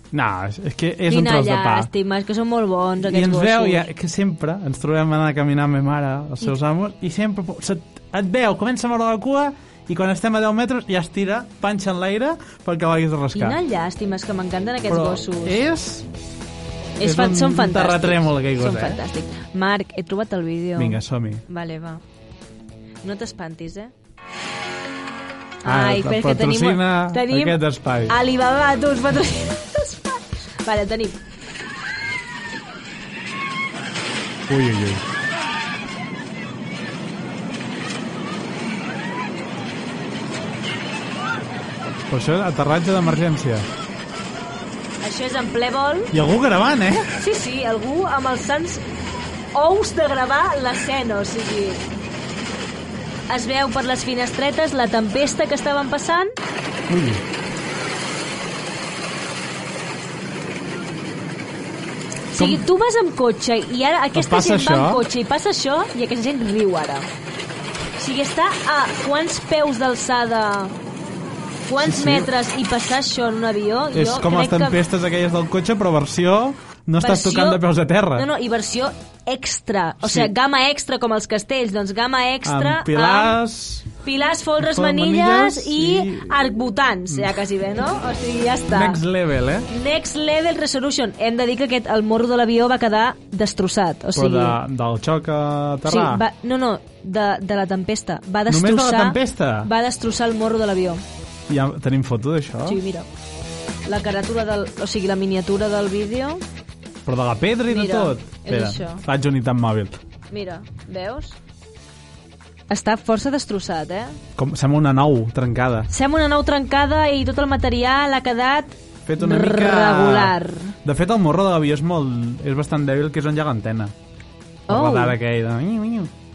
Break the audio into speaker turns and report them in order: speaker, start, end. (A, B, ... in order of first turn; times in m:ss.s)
0:00.1-0:01.9 A
0:01.1-0:03.9 B
0:03.0-0:13.6 A
0:13.3-0:15.6 B
0:14.9-0:16.1 A
0:17.0-0:22.0 B
0:17.0-0:19.0 A
0:20.8-0:21.4 A
0:23.0-0:23.9 B
0:25.6-0:31.2 B
0:25.6-0:28.1 A
0:34.5-0:35.0 A
0:42.1-0:43.7 A
0:45.0-0:46.1 B
0:46.1-0:47.1 A
0:47.1-0:48.8 B
0:49.5-0:51.8 B
0:53.3-0:56.3 B
0:56.9-0:57.2 A
1:02.3-1:07.1 B
1:02.4-1:02.6 A
1:04.1-1:05.0 A
1:08.0-1:10.7 B
1:11.7-1:14.8 B
1:11.8-1:12.3 A
1:13.9-1:18.3 A
1:17.0-1:17.6 B
1:18.1-1:23.4 B
1:20.0-1:20.3 A
1:22.4-1:23.9 A
1:24.0-1:29.0 B
1:24.6-1:26.4 A
1:28.7-1:29.7 A
1:29.7-1:34.6 B
1:34.1-1:36.2 A
1:35.8-1:41.0 B
1:38.5-1:39.7 A
1:41.5-1:42.8 A
1:42.6-1:43.1 B
1:43.8-1:46.4 B
1:47.0-1:50.0 A
1:47.7-1:49.0 B
1:50.3-1:51.4 B
1:52.7-1:54.2 B
1:54.4-1:55.9 A
1:55.9-2:00.7 B
1:59.0-2:03.9 A
2:04.7-2:05.2 B
2:04.7-2:06.1 A